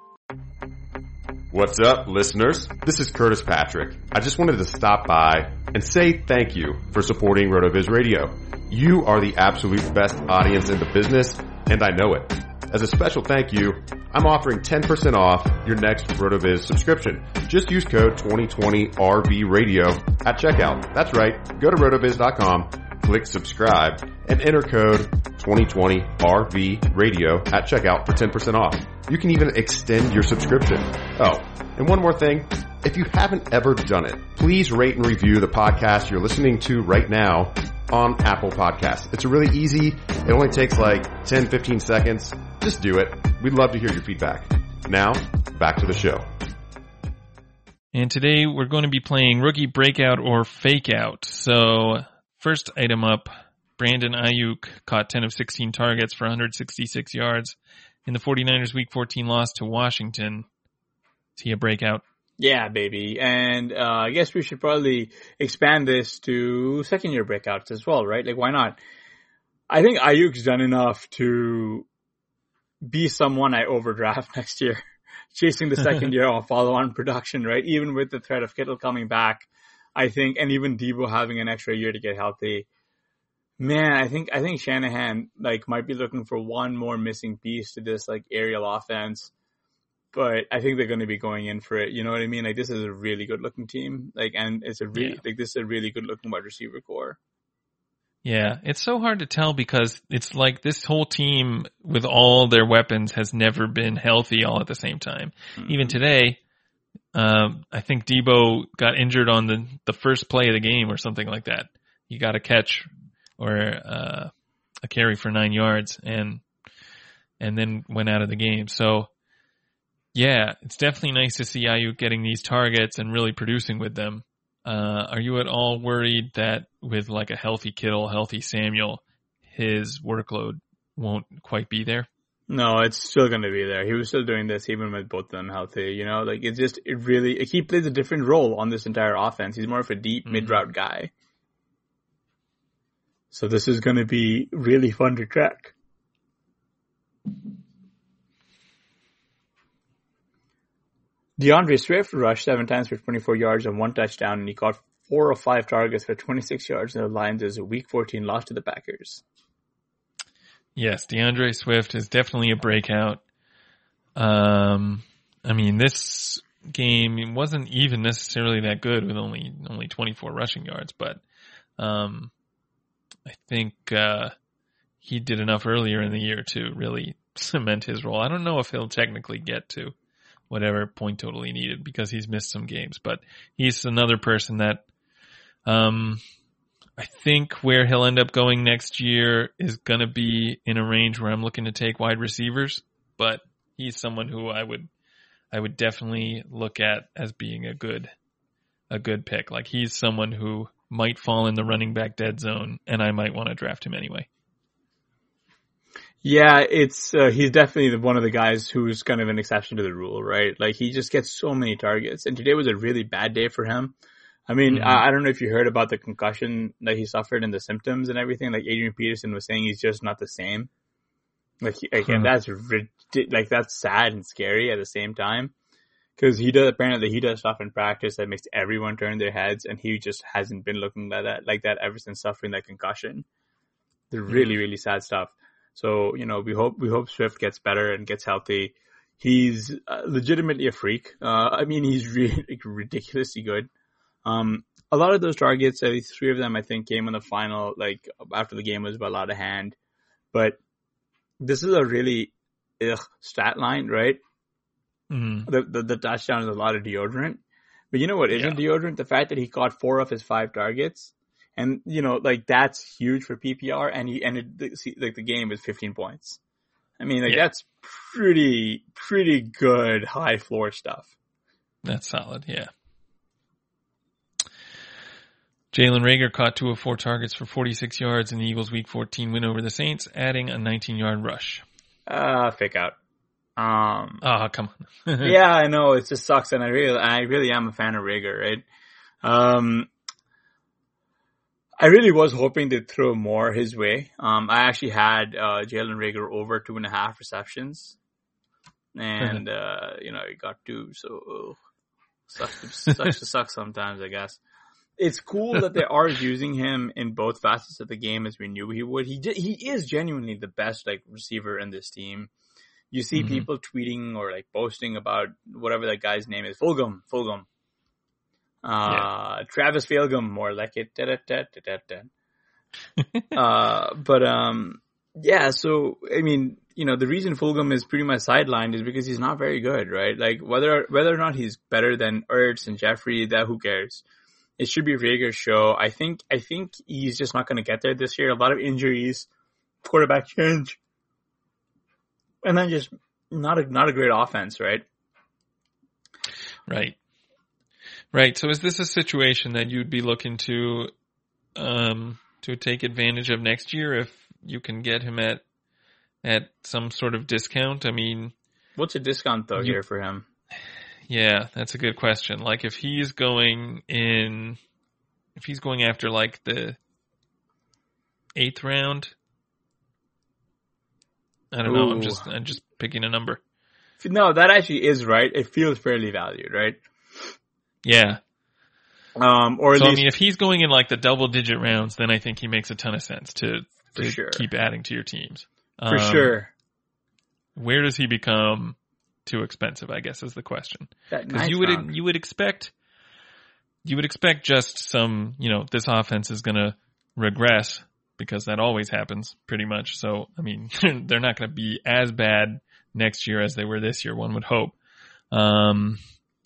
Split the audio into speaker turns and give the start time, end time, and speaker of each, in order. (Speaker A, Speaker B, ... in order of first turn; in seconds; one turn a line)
Speaker A: 1.5-46.3
Speaker B: 47.9-60.5
Speaker B: 61.4-62.0
Speaker C: 62.4-68.8
Speaker C: 69.7-71.9
Speaker C: 72.8-74.8
Speaker C: 75.3-82.7
Speaker C: 83.6-89.3
Speaker C: 90.1-97.2
Speaker B: 94.9-95.2
Speaker B: 98.2-106.4
Speaker C: 105.6-106.0
Speaker B: 107.1-114.3
Speaker B: 114.8-116.4
Speaker B: 117.4-119.1
Speaker B: 120.1-132.1
Speaker C: 132.5-141.1
Speaker B: 140.3-140.6
Speaker C: 143.3-145.7
Speaker C: 151.4-159.2
Speaker B: 160.8-163.2
Speaker B: 164.2-171.2
Speaker B: 171.8-172.3
Speaker B: 173.3-174.3
Speaker B: 175.0-179.9
Speaker B: 180.5-184.8
Speaker B: 185.7-186.2
Speaker B: 187.0-194.9
Speaker B: 195.5-198.1
Speaker B: 198.9-204.3
Speaker C: 206.2-213.9
Speaker C: 214.5-220.7
Speaker B: 214.7-215.0
Speaker C: 221.6-225.5
Speaker C: 226.2-233.3
Speaker C: 234.1-243.7
Speaker B: 234.3-234.6
Speaker C: 244.2-249.8
Speaker C: 250.3-250.6
Speaker C: 251.4-254.2
Speaker B: 255.1-255.5
Speaker C: 255.5-257.4
Speaker C: 257.9-266.4
Speaker B: 258.4-258.6
Speaker C: 267.0-271.1
Speaker B: 271.8-272.7
Speaker B: 275.7-281.6
Speaker C: 282.1-282.9
Speaker C: 283.6-284.2
Speaker B: 284.2-285.3
Speaker C: 285.2-288.6
Speaker C: 289.2-289.9
Speaker C: 291.8-297.9
Speaker C: 298.9-301.6
Speaker C: 302.3-304.4
Speaker C: 305.0-312.3
Speaker C: 312.9-317.4
Speaker B: 313.1-313.5
Speaker C: 318.6-322.1
Speaker C: 323.4-334.0
Speaker C: 334.6-339.3
Speaker C: 339.8-340.8
Speaker C: 342.4-344.8
Speaker B: 346.7-346.9
Speaker B: 348.1-350.9
Speaker B: 351.6-355.4
Speaker B: 356.2-358.3
Speaker C: 358.8-360.3
Speaker B: 361.1-364.6
Speaker B: 365.4-366.8
Speaker B: 368.4-369.1
Speaker B: 371.5-373.4
Speaker C: 371.6-372.3
Speaker C: 374.0-377.3
Speaker B: 377.8-378.2
Speaker C: 379.2-380.1
Speaker B: 379.8-386.3
Speaker C: 383.9-384.4
Speaker C: 385.9-386.5
Speaker B: 387.6-392.7
Speaker C: 391.1-391.9
Speaker B: 393.9-404.8
Speaker B: 405.3-406.0